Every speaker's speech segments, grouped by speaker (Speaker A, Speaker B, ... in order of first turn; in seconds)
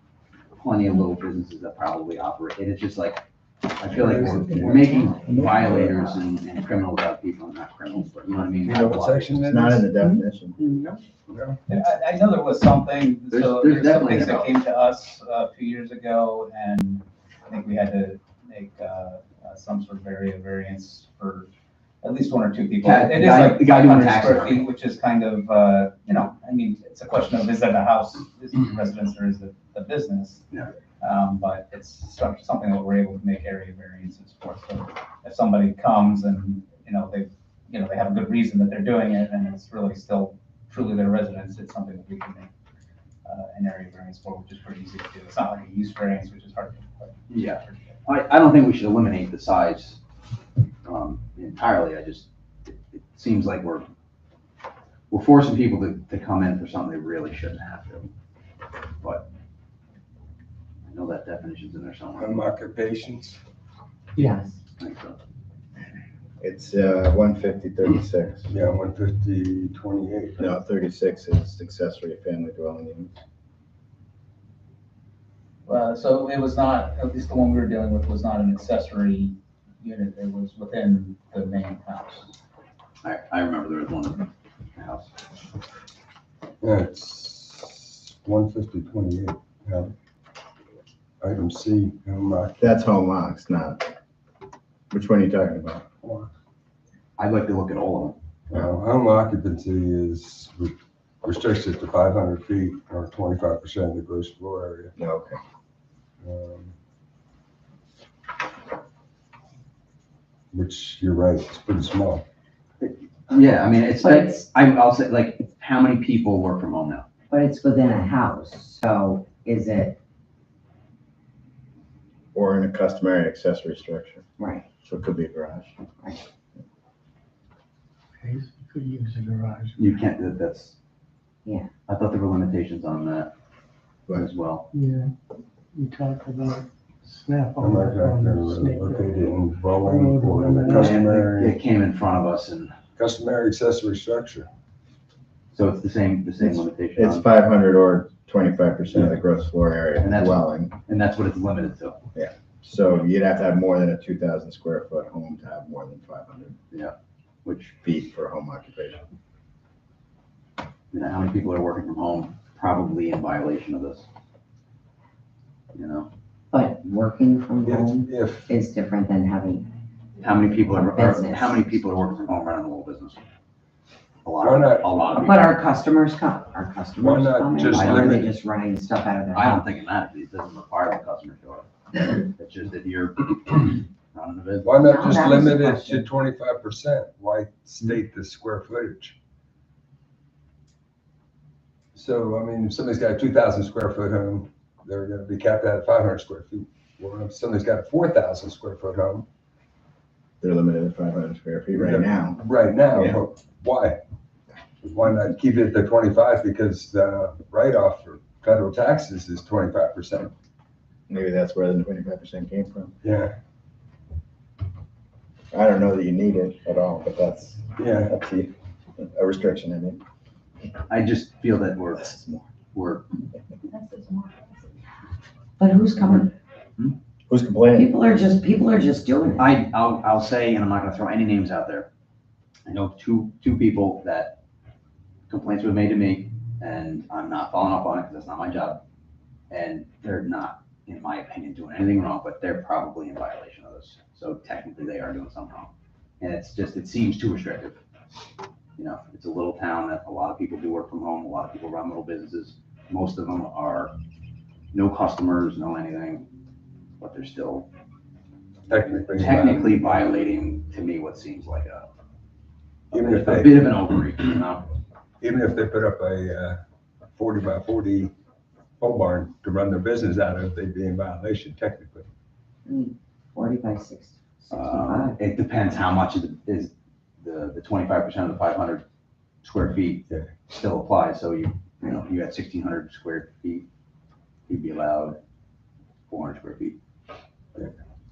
Speaker A: 0.6-3.2, 3.8-9.3, 13.3-14.6, 22.8-24.7, 47.3-50.0, 50.9-53.9, 55.1-58.1, 59.0-59.3, 60.9-62.4, 64.8-65.2, 83.0-85.1, 97.2-98.2, 112.8-117.1, 129.8-130.8, 131.9-133.3, 134.1-134.7, 140.7-142.7, 145.5-147.2, 150.0-152.0, 157.4-157.7, 160.9-164.1, 165.7-166.1, 170.2-173.2, 174.2-175.5, 177.7-178.3, 179.3-184.7, 220.9-222.2, 222.7-223.1, 229.4-231.9, 232.7-234.4, 235.3-238.8, 239.5-245.7, 246.2-247.8, 248.8-253.9, 254.7-256.3, 257.0-257.7, 259.1-261.9, 262.9-264.7, 274.5-278.9, 279.4-283.7, 284.5-285.2, 286.1-286.8
Speaker B: 3.9-4.9, 5.5-5.8, 8.7-9.9, 11.3-11.6, 62.2-63.4, 68.5-70.6, 86.6-89.9, 91.2-92.6, 96.0-96.3, 98.5-104.9, 106.2-106.7, 110.5-112.2, 137.6-141.6, 143.0-144.5, 167.7-168.5, 174.4-175.2, 177.0-178.3, 184.6-189.2, 191.9-199.3, 201.7-204.0, 204.8-210.3, 213.0-213.3, 217.8-218.1, 258.7-260.0, 262.9-263.7, 265.2-266.6, 267.1-268.1, 268.8-272.1
Speaker C: 4.6-5.9, 128.2-129.8, 134.7-135.1, 135.7-140.9
Speaker D: 8.7-10.6, 66.4-68.5, 70.4-73.2, 92.6-93.9, 94.9-95.8, 105.0-105.4, 122.3-124.2, 124.8-125.8, 146.4-150.8, 152.2-156.6, 157.8-159.0, 200.4-203.2, 211.1-212.9, 215.5-220.0, 222.0-222.4, 227.3-227.9
Speaker E: 11.7-21.5, 22.0-30.4, 31.0-42.5, 43.2-48.0, 75.7-82.3
Speaker F: 64.2-64.6, 114.0-114.4, 117.3-120.0, 124.4-124.7, 166.5-169.7, 170.8-171.7, 175.2-179.6, 184.8-186.1, 225.6-226.3, 227.7-229.5, 272.7-275.2